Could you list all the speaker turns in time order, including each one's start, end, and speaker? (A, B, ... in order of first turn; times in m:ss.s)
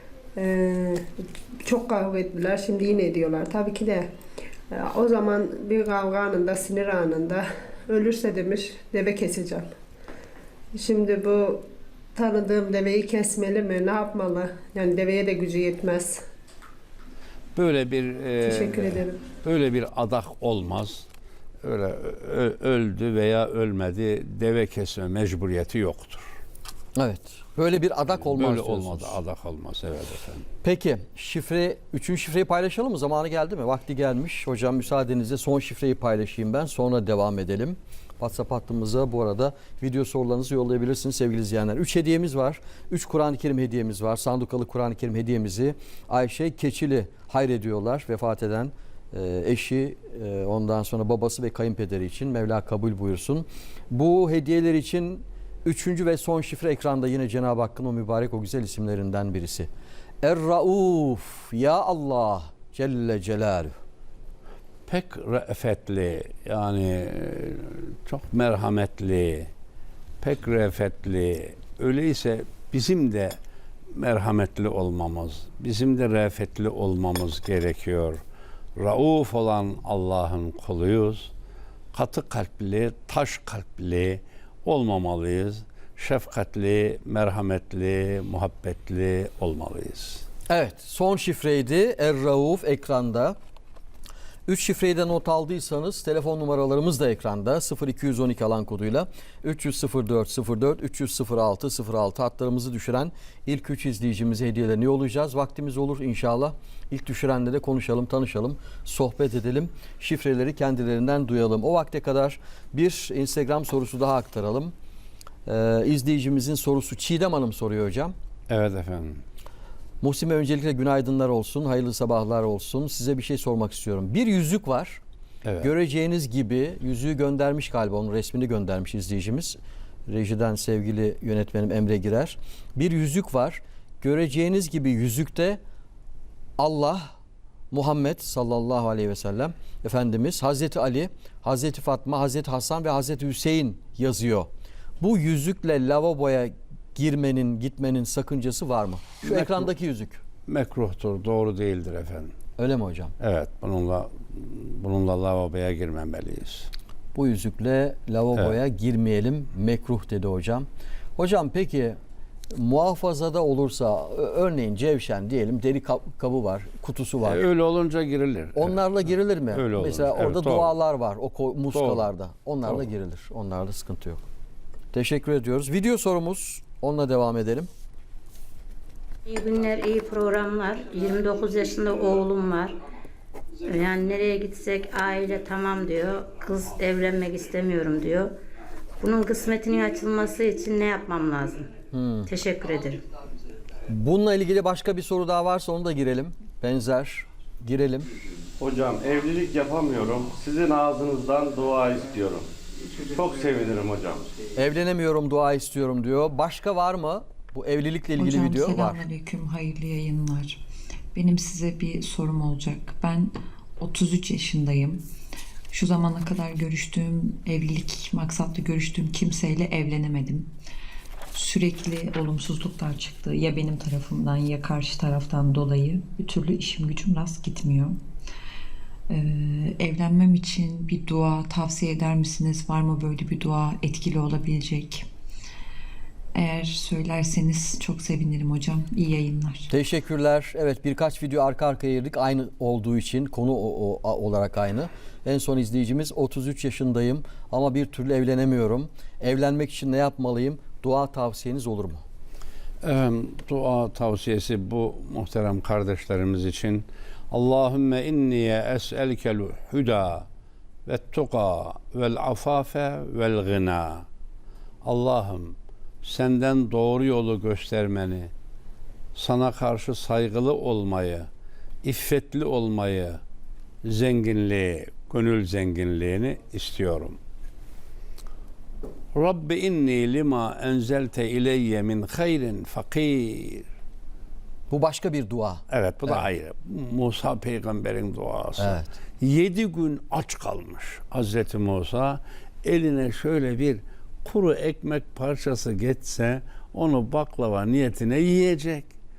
0:00.4-0:01.0 A
0:01.6-0:04.1 A
0:04.7-0:09.7 A
0:10.7-0:11.6 A
0:12.1-0:16.2 A
0:17.6-0:21.1 B
0:18.4-0:19.2 A
0:21.6-0:26.2 B
0:27.0-0:29.2 C
0:28.1-0:30.4 B
0:30.6-0:59.7 C
1:00.2-1:03.8 C
1:04.9-1:09.5 B
1:10.2-1:13.3 B
1:13.9-1:18.2 B
1:18.8-1:21.3 B
1:21.9-1:30.2 B
1:30.5-1:33.4 C
1:34.4-1:54.7 C
1:55.4-1:58.1 C
1:58.5-1:59.2 B
2:00.0-2:05.0 C
2:05.4-2:05.7 B
2:05.6-2:15.6 C
2:16.6-2:17.1 C
2:17.7-2:24.5 C
2:25.0-2:30.2 C
2:29.2-2:29.7 B
2:30.4-2:32.3 B
2:32.6-2:33.1 C
2:33.2-2:36.7 B
2:37.1-2:42.0 C
2:42.5-2:47.4 C
2:47.2-2:50.7 B
2:48.6-2:54.2 C
2:51.7-2:52.1 B
2:54.9-2:57.7 C
2:59.2-3:02.8 D
3:03.6-3:08.4 D
3:09.0-3:11.7 D
3:11.9-3:12.3 C
3:12.3-3:13.0 D
3:13.9-3:18.1 C
3:18.6-3:24.3 E
3:24.6-3:29.0 C
3:28.2-3:30.6 F
3:31.1-3:35.0 F
3:35.7-3:40.5 F
3:41.3-3:48.0 F
3:49.1-3:55.0 F
3:56.3-3:59.7 F
3:59.7-4:12.0 C
4:12.8-4:20.3 B
4:20.8-4:24.0 B
4:24.8-4:28.3 B
4:29.1-4:31.3 B
4:31.8-4:33.2 B
4:33.8-4:37.2 B
4:39.1-4:43.6 B
4:44.7-4:46.2 C
4:45.7-4:58.9 B
4:48.6-4:48.9 C